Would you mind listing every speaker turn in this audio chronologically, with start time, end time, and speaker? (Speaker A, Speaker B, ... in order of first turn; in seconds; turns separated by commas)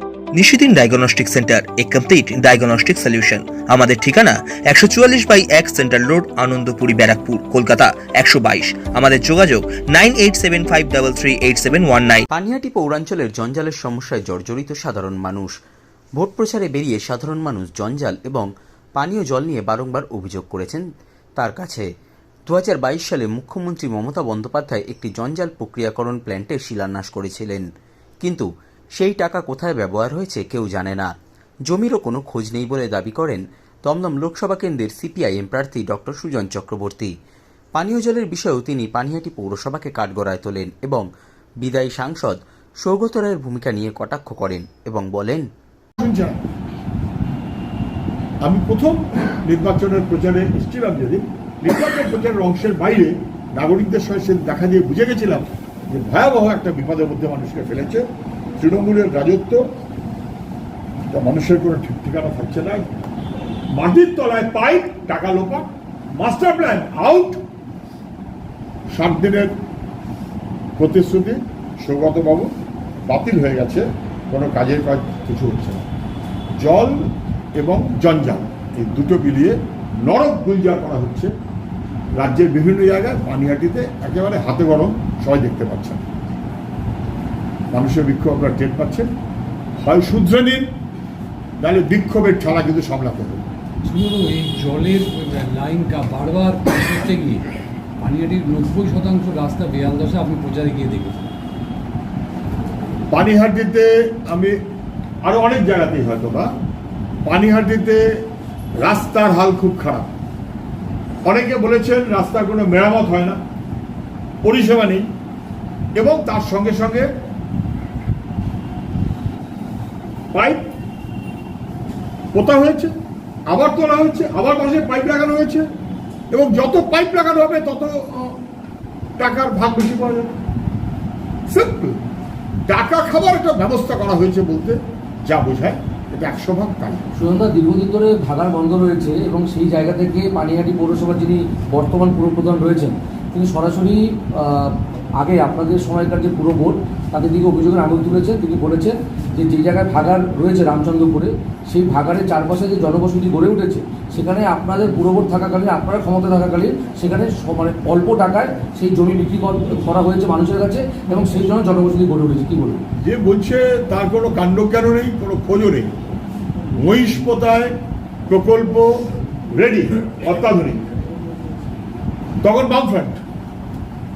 Speaker A: 0.3-12.2, Speaker B: 12.3-15.5, Speaker B: 16.2-20.8, Speaker B: 21.4-21.9, Speaker B: 22.5-27.7, Speaker B: 28.2-31.1, Speaker B: 31.7-37.1, Speaker B: 37.8-41.0, Speaker B: 41.6-45.5, Speaker C: 46.0-46.4, Speaker C: 48.4-58.0, Speaker C: 58.6-59.6, Speaker C: 61.1-62.9, Speaker C: 63.7-67.4, Speaker C: 68.9-69.5, Speaker C: 70.8-72.5, Speaker C: 73.1-75.8, Speaker C: 76.6-77.0, Speaker C: 77.6-81.3, Speaker C: 82.2-86.0, Speaker C: 87.7-89.1, Speaker C: 89.8-90.7, Speaker C: 91.6-93.5, Speaker D: 93.9-97.5, Speaker D: 98.0-101.2, Speaker C: 103.1-104.6, Speaker C: 105.2-106.5, Speaker C: 107.2-108.0, Speaker C: 108.8-110.1, Speaker C: 111.2-113.4, Speaker C: 114.4-115.1, Speaker C: 116.0-117.1, Speaker C: 120.3-120.7, Speaker C: 122.3-122.9, Speaker C: 123.5-125.7, Speaker C: 126.3-128.4, Speaker C: 129.2-130.3, Speaker C: 131.5-132.0, Speaker C: 132.7-137.0, Speaker E: 137.2-162.8, Speaker C: 163.0-165.9, Speaker C: 166.8-167.7, Speaker C: 168.3-170.8, Speaker C: 172.4-173.2